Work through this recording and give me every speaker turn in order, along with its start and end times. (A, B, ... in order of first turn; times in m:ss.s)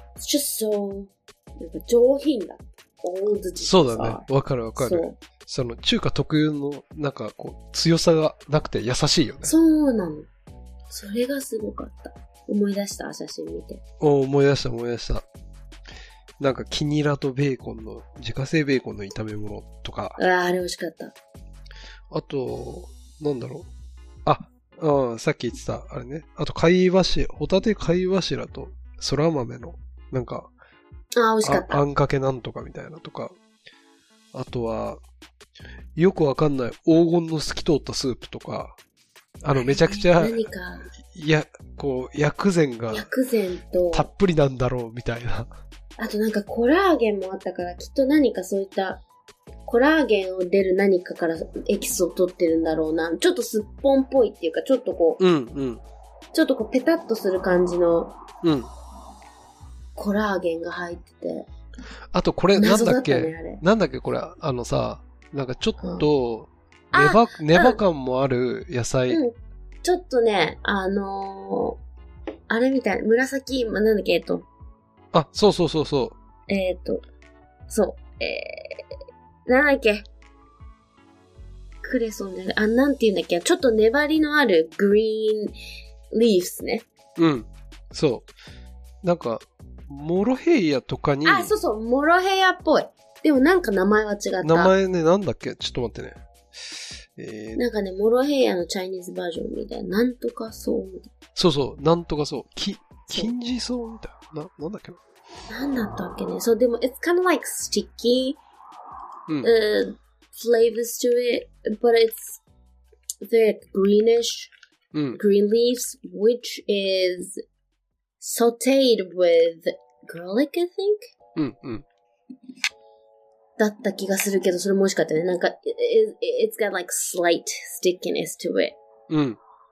0:00.2-0:05.2 A
0:03.6-0:09.5 B
0:09.4-0:10.3 A
0:10.9-0:13.8 A
0:14.0-0:15.2 B
0:16.4-0:20.2 B
0:20.2-0:21.2 A
0:22.1-0:23.7 B
0:24.2-0:30.5 B
0:31.2-0:31.8 A
0:31.4-0:33.4 B
0:34.3-0:35.0 B
0:36.0-0:38.8 B
0:39.4-0:40.4 B
0:39.6-0:40.9 A
0:41.0-0:43.1 B
0:42.9-0:44.1 A
0:43.9-0:45.5 B
0:46.0-0:49.0 A
0:49.7-0:55.2 A
0:55.2-0:55.8 B
0:56.3-0:58.2 A
0:58.4-0:58.7 B
1:00.0-1:01.5 A
1:02.1-1:09.2 B
1:02.6-1:03.6 A
1:05.8-1:06.1 A
1:06.9-1:07.8 A
1:09.1-1:11.8 A
1:12.5-1:14.5 A
1:15.1-1:16.2 B
1:16.5-1:17.0 A
1:17.7-1:18.9 A
1:19.5-1:20.0 A
1:21.8-1:25.6 A
1:26.1-1:26.9 A
1:27.2-1:28.3 B
1:29.0-1:31.5 B
1:31.2-1:34.7 A
1:34.4-1:36.2 B
1:36.7-1:37.6 B
1:37.6-1:41.1 A
1:41.4-1:45.0 B
1:45.5-1:48.4 A
1:49.4-1:52.4 A
1:53.2-1:54.5 A
1:54.9-1:55.2 B
1:55.1-1:57.4 A
1:58.2-2:01.1 A
2:01.4-2:01.8 B
2:03.6-2:08.8 A
2:09.1-2:09.4 B